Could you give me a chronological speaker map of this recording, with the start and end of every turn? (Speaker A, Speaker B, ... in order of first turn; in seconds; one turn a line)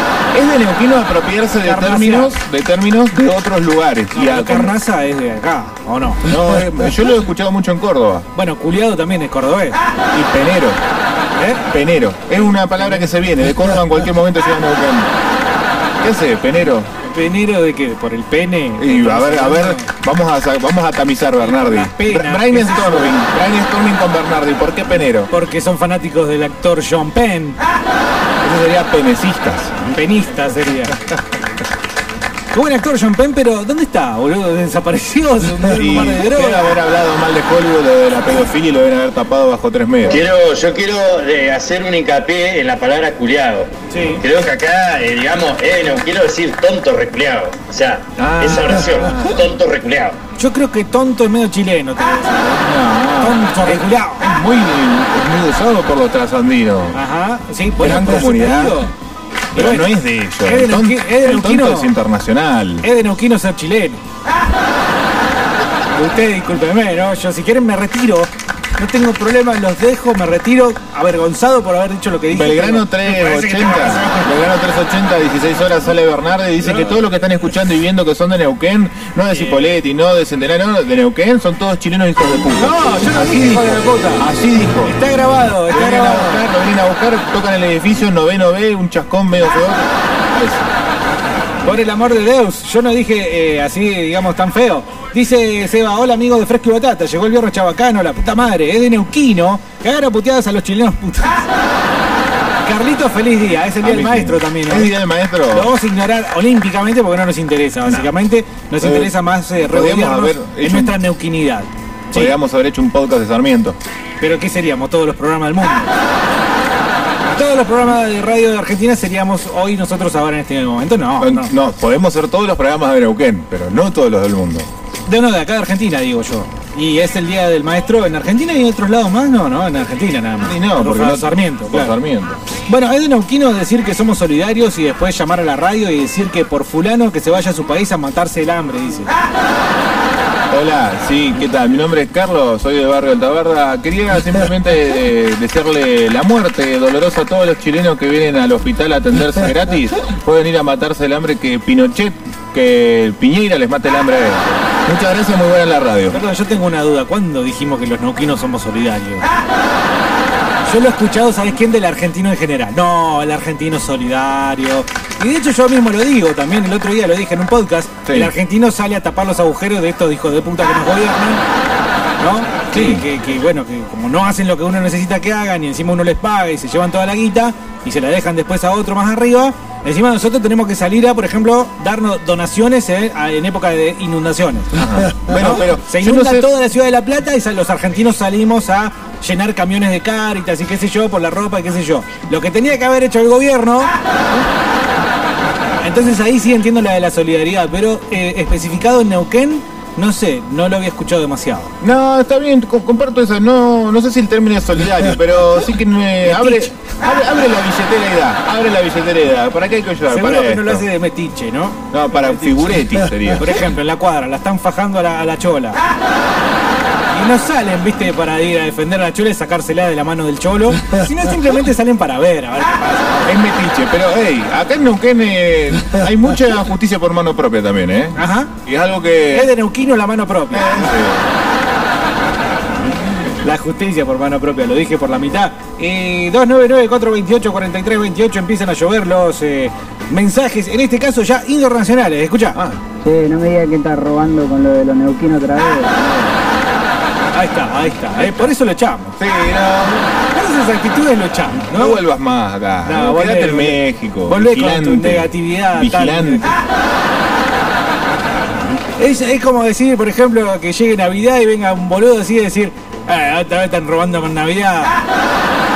Speaker A: 0.3-4.7
Speaker B: 1.6-2.3
Speaker B: 4.1-6.2
Speaker A: 6.2-8.3
Speaker B: 8.3-9.8
Speaker A: 10.1-10.8
Speaker B: 11.4-11.6
Speaker A: 11.7-15.1
Speaker B: 12.3-13.0
Speaker A: 16.0-16.9
Speaker B: 17.0-19.9
Speaker A: 18.8-25.3
Speaker B: 21.4-23.1
Speaker B: 25.3-27.6
Speaker A: 28.4-29.7
Speaker B: 29.8-30.9
Speaker B: 32.5-36.8
Speaker A: 35.6-40.2
Speaker C: 40.1-43.7
Speaker B: 43.9-44.2
Speaker C: 44.2-50.2
Speaker A: 48.2-49.2
Speaker B: 50.4-54.2
Speaker A: 52.6-57.0
Speaker B: 56.9-58.9
Speaker A: 57.8-58.8
Speaker A: 59.5-62.9
Speaker B: 59.5-59.9
Speaker B: 60.4-61.9
Speaker B: 62.8-64.0
Speaker B: 65.9-74.3
Speaker A: 72.3-84.9
Speaker B: 76.6-77.0
Speaker B: 79.3-79.7
Speaker B: 82.6-84.3
Speaker B: 84.8-86.4
Speaker A: 85.7-90.7
Speaker B: 91.6-101.5
Speaker B: 102.6-104.9
Speaker A: 103.8-105.7
Speaker B: 105.5-112.3
Speaker A: 108.8-111.0
Speaker A: 112.1-113.8
Speaker B: 114.2-115.9
Speaker B: 117.3-121.5
Speaker A: 121.2-124.7
Speaker B: 125.0-131.9
Speaker A: 130.4-132.4
Speaker B: 132.7-139.1
Speaker A: 140.5-156.2
Speaker B: 156.1-159.2
Speaker B: 160.6-171.4
Speaker A: 168.1-168.3
Speaker B: 172.2-184.7
Speaker A: 172.7-173.0
Speaker A: 184.7-186.5
Speaker B: 185.3-193.9
Speaker A: 194.1-194.5
Speaker B: 195.8-201.7
Speaker A: 201.8-210.8
Speaker B: 206.2-206.7
Speaker B: 210.1-212.8
Speaker A: 211.9-213.5
Speaker B: 213.4-215.8
Speaker B: 217.1-223.3
Speaker A: 223.2-229.5
Speaker B: 228.2-228.5
Speaker B: 229.3-230.9
Speaker A: 230.5-231.3
Speaker B: 233.4-242.6
Speaker A: 242.5-242.8
Speaker D: 243.0-246.4
Speaker B: 247.3-249.2
Speaker A: 248.2-248.5
Speaker A: 249.2-250.1
Speaker B: 250.3-252.0
Speaker A: 251.7-256.5
Speaker B: 252.8-256.6
Speaker B: 259.0-265.0